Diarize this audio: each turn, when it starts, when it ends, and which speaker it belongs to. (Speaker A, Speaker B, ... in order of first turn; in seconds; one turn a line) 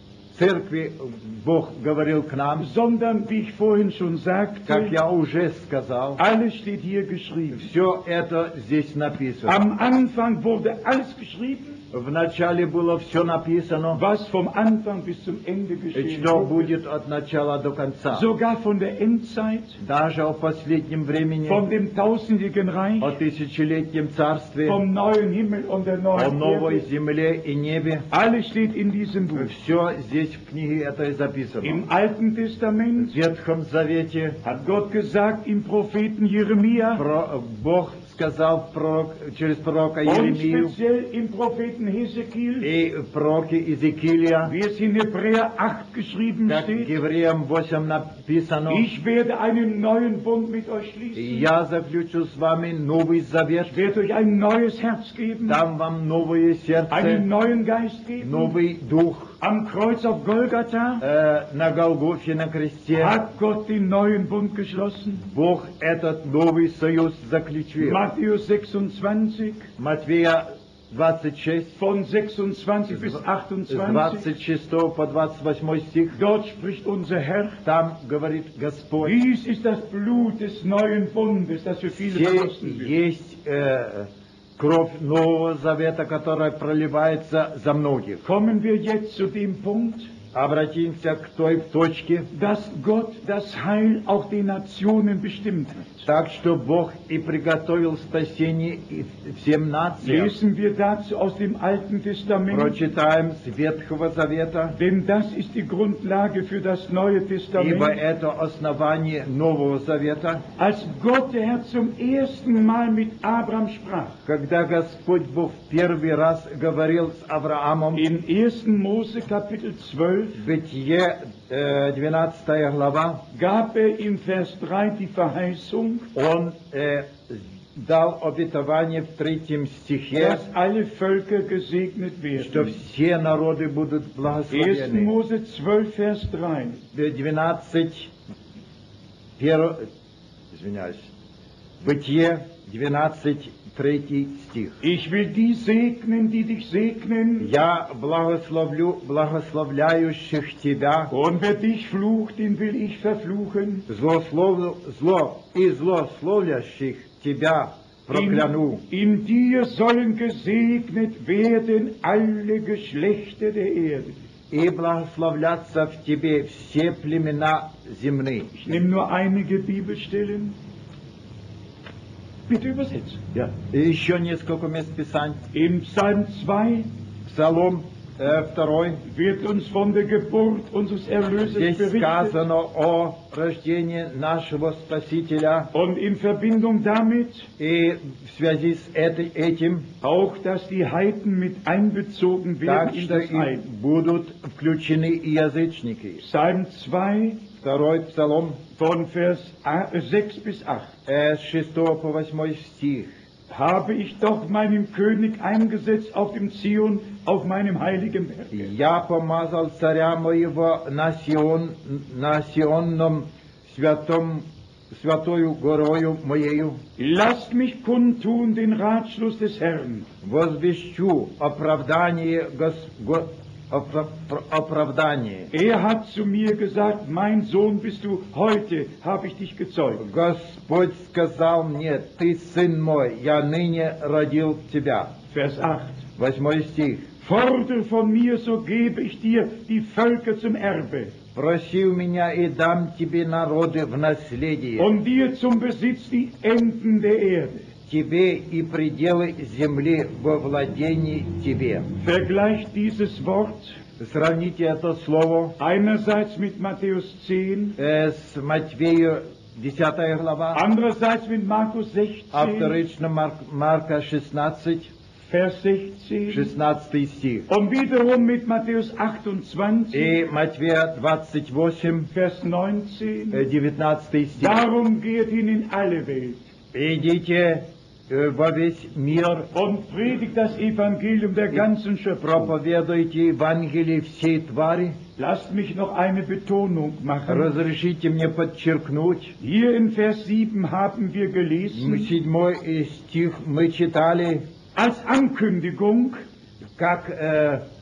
Speaker A: 0.3-2.7
Speaker B: 2.6-5.0
Speaker A: 4.7-6.2
Speaker B: 6.2-7.7
Speaker A: 7.5-9.6
Speaker B: 9.4-11.8
Speaker A: 11.9-14.0
Speaker B: 13.9-16.7
Speaker A: 15.9-18.3
Speaker B: 18.1-19.8
Speaker A: 19.8-21.6
Speaker B: 21.4-23.2
Speaker A: 23.0-24.8
Speaker B: 24.6-26.9
Speaker A: 26.1-28.1
Speaker B: 28.1-29.5
Speaker A: 29.3-31.8
Speaker B: 31.6-33.1
Speaker A: 33.0-34.4
Speaker B: 34.4-37.0
Speaker A: 36.9-40.7
Speaker B: 40.0-42.7
Speaker A: 42.6-44.5
Speaker B: 44.4-46.9
Speaker A: 46.5-48.9
Speaker B: 48.7-51.5
Speaker A: 51.1-53.8
Speaker B: 53.7-55.6
Speaker A: 55.5-57.2
Speaker B: 56.9-58.6
Speaker A: 58.2-59.4
Speaker B: 59.4-61.0
Speaker A: 61.0-63.2
Speaker B: 63.0-65.2
Speaker A: 65.3-68.0
Speaker B: 67.8-69.7
Speaker A: 69.8-71.8
Speaker B: 71.8-74.3
Speaker A: 72.9-73.2
Speaker A: 73.7-76.2
Speaker B: 76.1-77.6
Speaker A: 77.6-79.2
Speaker B: 79.0-82.9
Speaker A: 81.9-88.2
Speaker B: 88.2-90.1
Speaker A: 90.3-92.3
Speaker B: 92.3-96.1
Speaker A: 96.0-100.3
Speaker B: 100.0-102.8
Speaker A: 102.5-104.8
Speaker B: 104.7-108.0
Speaker A: 107.5-110.4
Speaker B: 110.6-114.2
Speaker A: 114.2-118.0
Speaker B: 117.9-120.4
Speaker A: 120.3-123.2
Speaker B: 123.3-126.1
Speaker A: 126.1-130.4
Speaker B: 130.1-132.8
Speaker A: 132.4-135.1
Speaker B: 134.5-136.8
Speaker A: 136.9-138.1
Speaker A: 139.4-139.8
Speaker A: 140.5-141.1
Speaker A: 141.8-144.8
Speaker B: 144.8-147.5
Speaker A: 147.4-151.1
Speaker B: 151.1-153.8
Speaker A: 153.9-158.8
Speaker B: 158.1-164.2
Speaker A: 164.5-168.5
Speaker B: 168.5-170.6
Speaker B: 172.5-173.5
Speaker A: 173.7-175.4
Speaker B: 175.5-176.9
Speaker A: 177.2-179.0
Speaker B: 179.1-182.4
Speaker A: 181.4-185.7
Speaker B: 185.7-187.5
Speaker A: 187.6-189.9
Speaker B: 190.0-193.6
Speaker A: 192.6-196.2
Speaker B: 196.2-197.5
Speaker A: 197.6-198.6
Speaker B: 198.8-200.9
Speaker A: 201.1-203.1
Speaker B: 203.5-208.7
Speaker A: 208.5-216.8
Speaker B: 217.0-220.1
Speaker A: 220.2-225.5
Speaker B: 225.5-230.0
Speaker A: 230.0-235.1
Speaker B: 235.3-236.0
Speaker A: 236.2-237.1
Speaker B: 237.2-241.1
Speaker A: 241.3-244.9
Speaker B: 244.8-247.7
Speaker A: 247.9-251.9
Speaker B: 252.0-253.8
Speaker A: 254.0-255.6
Speaker B: 255.6-257.8
Speaker A: 257.8-260.6
Speaker B: 260.5-262.8
Speaker A: 262.3-264.9
Speaker B: 265.3-266.5
Speaker A: 266.3-267.5
Speaker B: 267.5-270.1
Speaker A: 269.9-272.1
Speaker B: 272.1-273.4
Speaker A: 273.3-274.6
Speaker B: 274.4-276.4
Speaker A: 276.7-279.5
Speaker B: 279.5-282.5
Speaker A: 282.2-285.0
Speaker B: 285.2-287.5
Speaker A: 287.3-289.4
Speaker B: 289.4-292.1
Speaker A: 291.7-294.4
Speaker B: 294.7-296.2
Speaker A: 296.8-297.6